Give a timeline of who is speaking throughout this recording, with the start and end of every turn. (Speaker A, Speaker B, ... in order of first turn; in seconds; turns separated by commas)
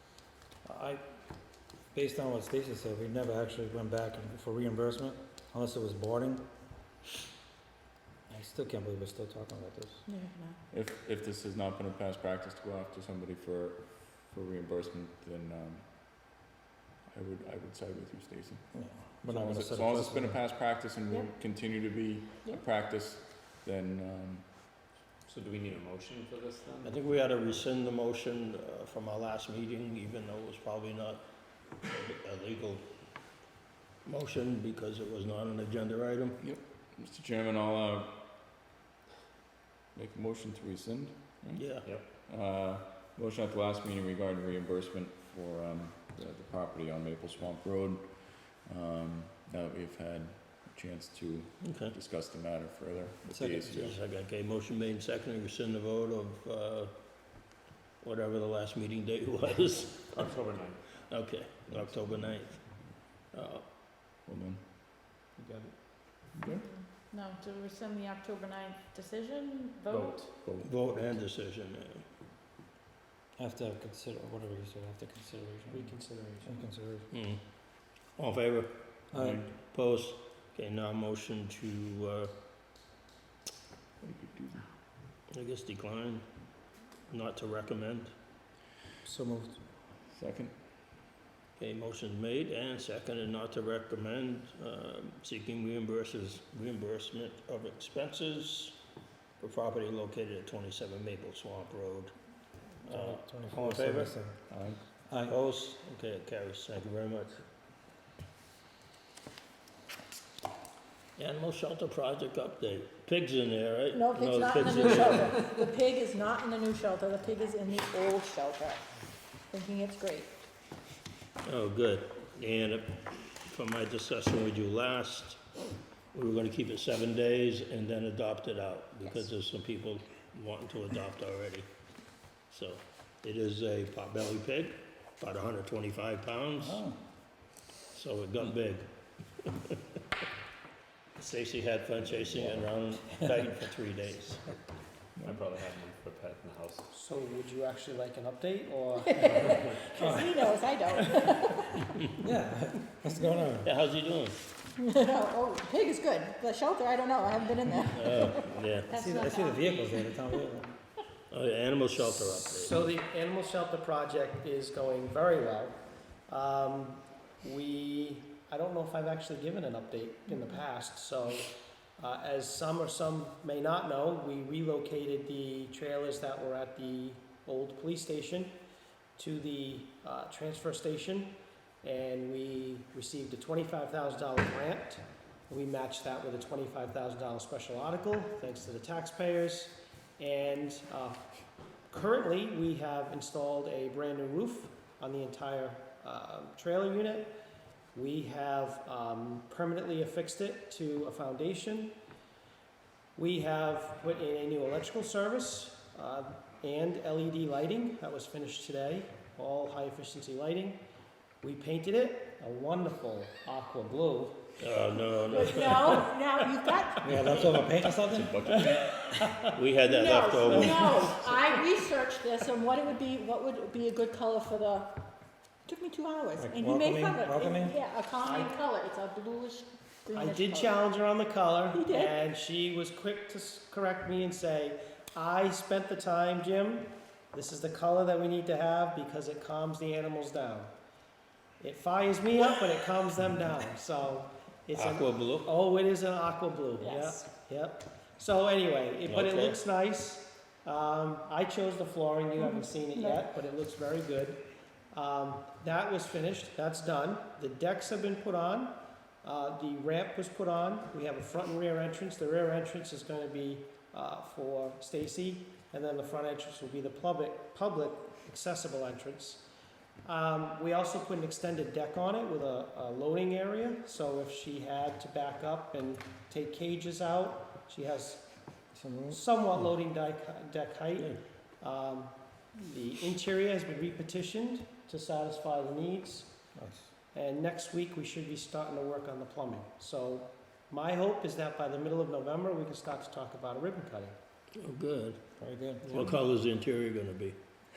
Speaker A: 0.7-1.0, Speaker A: 1.9-6.5, Speaker A: 8.3-10.1, Speaker B: 10.1-10.6, Speaker C: 10.7-16.4, Speaker C: 17.1-18.7, Speaker A: 18.7-20.4, Speaker C: 19.2-24.7, Speaker D: 25.2-26.9, Speaker E: 26.8-31.2, Speaker E: 31.8-32.9, Speaker E: 34.0-36.4, Speaker C: 36.4-38.4, Speaker C: 39.9-54.0, Speaker E: 41.6-41.9, Speaker E: 51.6-52.0, Speaker A: 53.3-53.9, Speaker E: 53.6-57.5, Speaker E: 58.0-60.3, Speaker D: 60.2-60.8, Speaker E: 61.1-63.6, Speaker C: 64.2-64.7, Speaker F: 65.4-65.7, Speaker C: 66.3-66.7, Speaker B: 66.7-70.2, Speaker D: 69.9-70.7, Speaker E: 70.6-72.0, Speaker A: 73.4-77.1, Speaker F: 75.7-76.5, Speaker E: 77.1-79.0, Speaker A: 79.1-79.5, Speaker C: 79.1-79.6, Speaker E: 79.7-82.3, Speaker C: 84.0-84.7, Speaker E: 85.3-86.3, Speaker E: 87.1-88.1, Speaker A: 89.0-89.6, Speaker C: 90.1-90.6, Speaker E: 91.6-98.8, Speaker E: 99.4-102.1, Speaker E: 102.8-104.2, Speaker A: 102.9-104.4, Speaker C: 104.5-104.8, Speaker A: 105.1-105.8, Speaker E: 105.3-107.4, Speaker E: 111.2-115.6, Speaker B: 113.9-118.8, Speaker B: 119.5-120.3, Speaker E: 121.4-125.4, Speaker E: 126.1-131.7, Speaker E: 132.5-136.8, Speaker A: 136.6-137.0, Speaker E: 137.9-138.9, Speaker E: 141.2-144.4, Speaker D: 145.2-146.9, Speaker F: 146.9-149.6, Speaker B: 149.0-151.8, Speaker A: 150.0-150.5, Speaker A: 152.2-153.7, Speaker E: 153.6-154.4, Speaker B: 154.8-160.4, Speaker E: 157.9-158.9, Speaker A: 158.9-160.8, Speaker E: 161.3-162.8, Speaker F: 162.4-178.6, Speaker B: 170.3-170.6, Speaker F: 179.2-191.2, Speaker F: 191.9-197.3, Speaker F: 197.9-201.9, Speaker F: 203.2-210.8, Speaker F: 211.4-214.5, Speaker E: 214.6-216.1, Speaker B: 215.3-217.1, Speaker A: 217.0-218.6, Speaker C: 218.1-218.9, Speaker E: 219.6-221.2, Speaker B: 219.8-225.1, Speaker F: 220.5-221.2, Speaker B: 225.7-230.8, Speaker A: 226.4-227.8, Speaker F: 228.2-228.6, Speaker F: 230.1-240.7, Speaker B: 231.7-232.2, Speaker F: 241.6-269.4, Speaker E: 244.8-245.5, Speaker B: 246.8-247.3, Speaker E: 249.1-249.6, Speaker B: 252.4-253.2, Speaker F: 270.1-278.3, Speaker A: 278.7-279.2, Speaker F: 279.1-286.4, Speaker A: 286.6-286.9, Speaker F: 287.1-294.2, Speaker E: 294.6-295.2, Speaker A: 295.4-296.0, Speaker E: 295.9-297.4